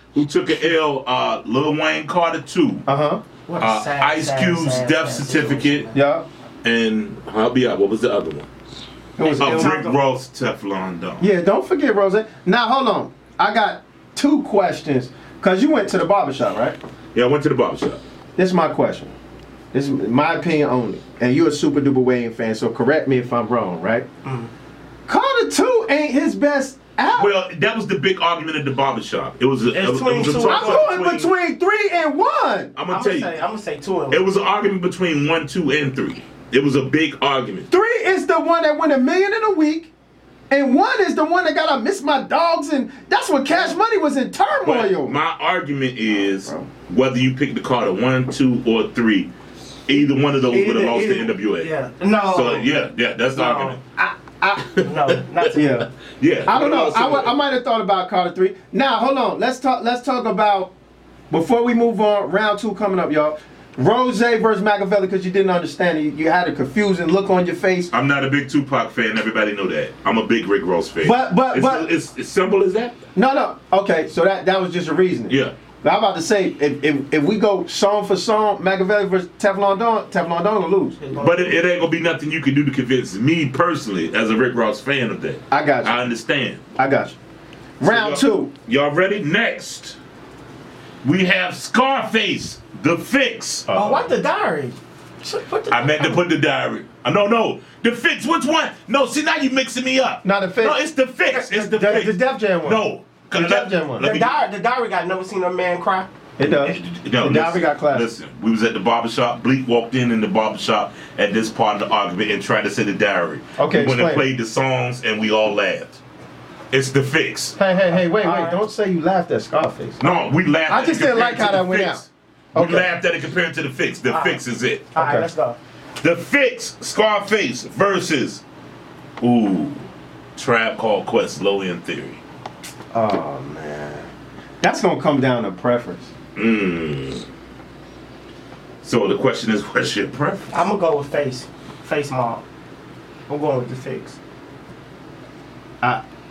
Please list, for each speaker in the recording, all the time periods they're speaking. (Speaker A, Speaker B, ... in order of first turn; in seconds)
Speaker A: 0.1-2.9, 3.6-5.9, 6.6-8.5, 9.4-11.3, 17.1-18.0, 27.1-31.3, 32.8-33.4, 34.1-37.7, 44.6-49.3, 49.9-51.7, 52.3-53.8, 54.5-57.3, 67.9-73.0, 75.3-75.5, 81.2-86.6, 87.8-90.0, 91.0-93.7, 95.7-104.4, 106.4-116.0, 116.7-117.6, 120.0-124.9, 126.0-128.4, 129.2-132.2, 136.4-137.2, 138.8-140.7
Speaker B: 2.9-3.2, 5.9-6.3, 9.2-9.8, 11.2-16.8, 18.4-19.1, 19.7-24.1, 25.1-27.3, 30.4-32.7, 37.7-39.9, 40.5-45.2, 46.1-46.7, 54.0-54.6, 55.5-55.9, 56.5-60.7, 61.3-67.9, 71.0-71.9, 73.2-81.0, 85.5-86.0, 86.8-87.2, 87.8-88.5, 93.7-94.1, 100.2-100.8, 101.3-104.1, 106.4-108.1, 113.6-114.2, 117.6-122.9, 124.9-125.3, 132.9-134.1, 134.6-136.1
Speaker C: 3.5-6.0, 9.2-10.0, 24.2-24.5, 29.7-30.9, 32.9-34.3, 50.0-52.7, 53.4-53.8, 54.8-55.6, 81.0-81.6, 93.7-96.2, 104.0-106.1, 117.9-118.6, 124.1-124.4, 124.9-125.6, 140.5-142.4, 143.3-144.2